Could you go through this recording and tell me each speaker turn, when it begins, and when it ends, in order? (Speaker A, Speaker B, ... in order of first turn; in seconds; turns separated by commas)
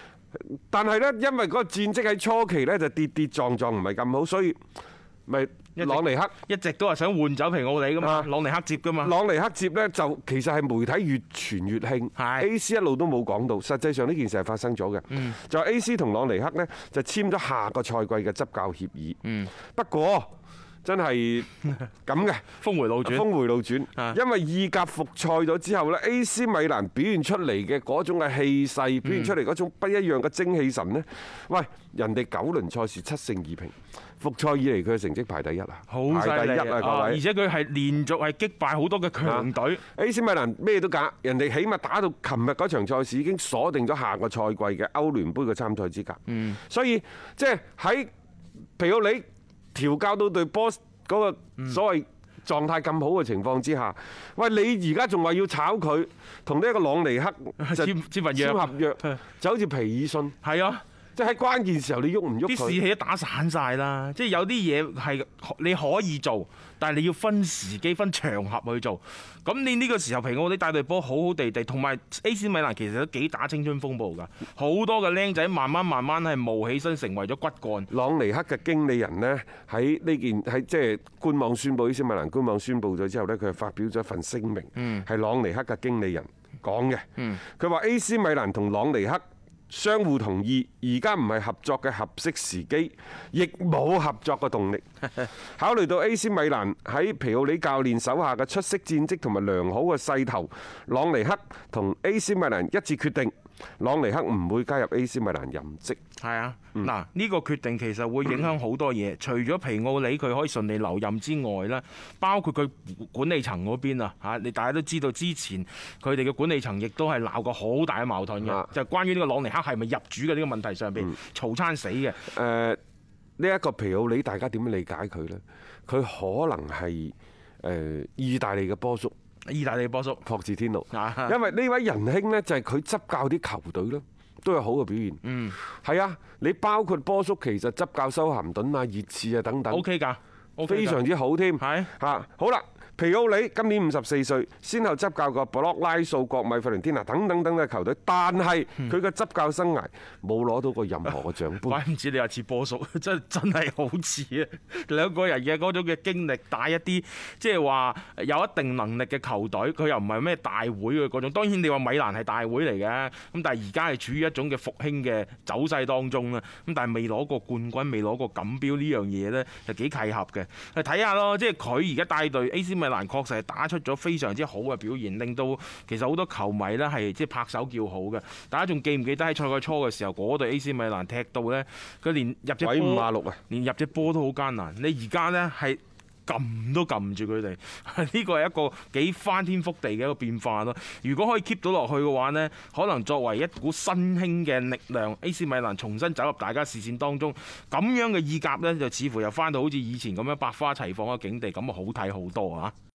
Speaker A: 0.4-4.6, Speaker A: 5.3-6.3, Speaker B: 5.8-9.1, Speaker A: 8.0-8.3, Speaker A: 9.0-20.3, Speaker B: 12.2-12.5, Speaker B: 19.2-19.5, Speaker A: 20.8-22.4, Speaker B: 22.6-23.3, Speaker A: 23.0-37.2, Speaker B: 29.0-29.4, Speaker B: 35.9-39.8, Speaker A: 39.2-48.1, Speaker A: 48.8-60.4, Speaker B: 57.6-59.2, Speaker B: 60.4-60.8, Speaker A: 61.1-62.8, Speaker B: 62.5-77.9, Speaker A: 77.9-106.0, Speaker B: 84.8-85.0, Speaker B: 106.2-122.3, Speaker A: 118.4-118.7, Speaker A: 122.2-122.8, Speaker A: 123.4-129.1, Speaker B: 129.4-130.2, Speaker A: 130.2-139.8, Speaker B: 130.9-131.3, Speaker B: 135.2-135.6, Speaker B: 139.7-141.0, Speaker A: 140.6-151.8, Speaker B: 141.6-141.9, Speaker B: 151.1-202.7, Speaker A: 182.6-183.4